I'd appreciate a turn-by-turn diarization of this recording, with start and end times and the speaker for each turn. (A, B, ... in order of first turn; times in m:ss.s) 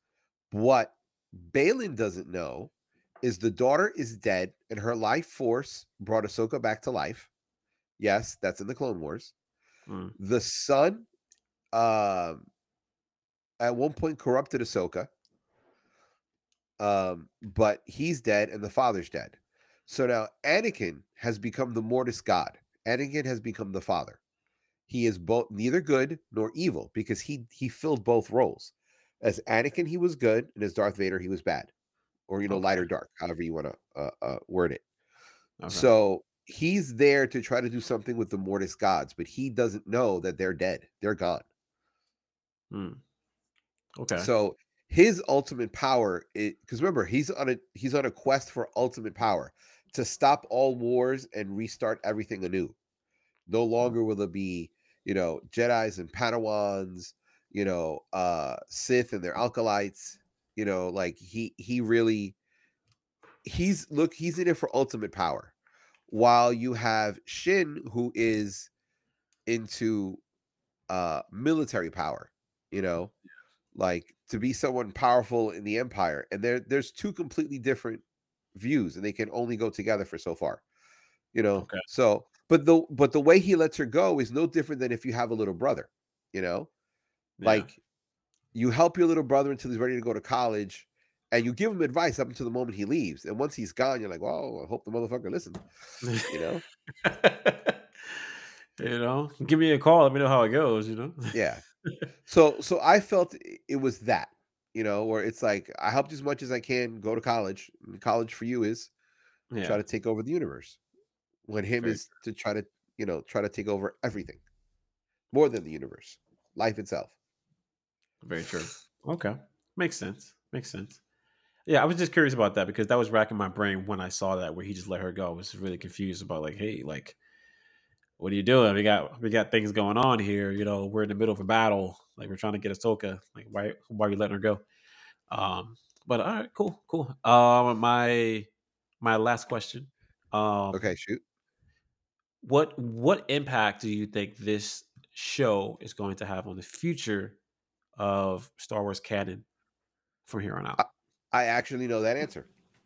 0:00.5-0:02.7 A
0:03.2-0:07.3 A
0:08.0-0:09.3 A
0:09.9-0:10.2 B
0:10.2-0:11.1 A
0:11.7-0:12.5 A
0:13.6-0:15.1 A
0:16.8-0:19.4 A
0:19.9-0:24.2 A
0:24.9-0:31.7 A
0:32.3-0:34.8 A
0:32.5-0:32.9 B
0:35.6-0:35.9 B
0:35.7-0:41.4 A
0:42.7-0:43.0 B
0:44.0-0:44.3 B
0:44.2-0:52.8 A
0:53.5-1:02.4 A
1:03.4-1:05.5 A
1:06.1-1:08.7 A
1:09.5-1:10.2 A
1:10.9-1:13.1 A
1:13.8-1:18.0 A
1:18.6-1:20.6 A
1:21.3-1:26.7 A
1:21.6-1:21.8 B
1:27.4-1:27.7 B
1:27.4-1:27.8 A
1:28.5-1:35.6 A
1:36.0-1:36.3 B
1:36.2-1:36.6 A
1:37.0-1:38.2 B
1:38.8-1:41.4 B
1:41.3-1:41.6 A
1:42.3-1:48.9 A
1:49.5-1:49.8 B
1:49.6-1:50.8 A
1:51.5-1:54.4 A
1:51.8-1:52.1 B
1:55.3-1:57.1 A
1:58.2-2:01.0 B
2:01.7-2:07.2 B
2:08.2-2:14.6 B
2:15.3-2:18.5 B
2:19.0-2:20.9 B
2:20.7-2:21.2 A
2:22.4-2:27.4 B
2:28.0-2:29.5 B
2:30.3-2:30.8 B
2:30.8-2:32.5 A